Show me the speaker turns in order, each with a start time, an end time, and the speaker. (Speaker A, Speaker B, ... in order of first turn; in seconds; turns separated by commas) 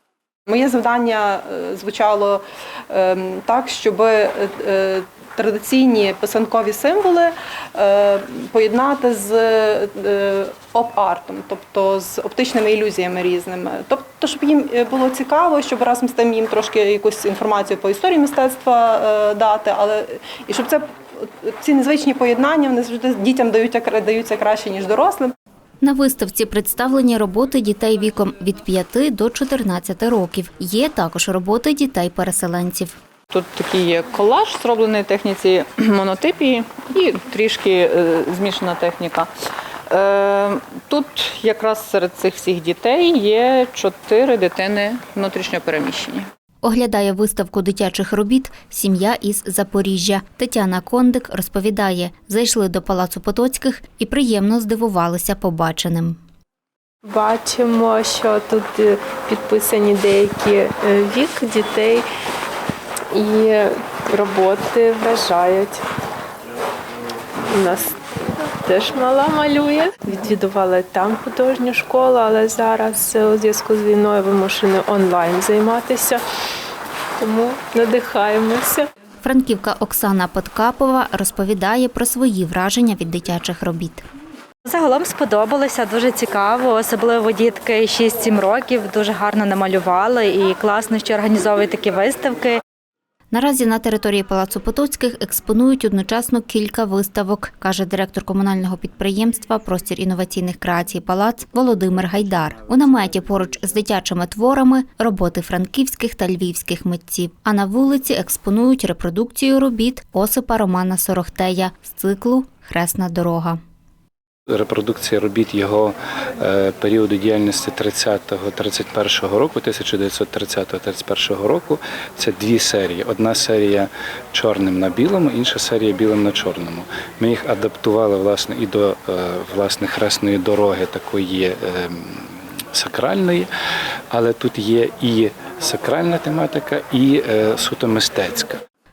Speaker A: 0.5-25.3, Speaker B: 25.8-33.0, Speaker C: 33.3-39.3, Speaker C: 39.9-46.3, Speaker B: 46.6-56.2, Speaker D: 57.1-62.1, Speaker D: 63.1-65.8, Speaker D: 67.5-76.2, Speaker D: 77.2-78.9, Speaker B: 79.2-84.0, Speaker E: 84.7-92.6, Speaker B: 93.3-113.6, Speaker F: 114.5-133.5, Speaker F: 134.1-138.6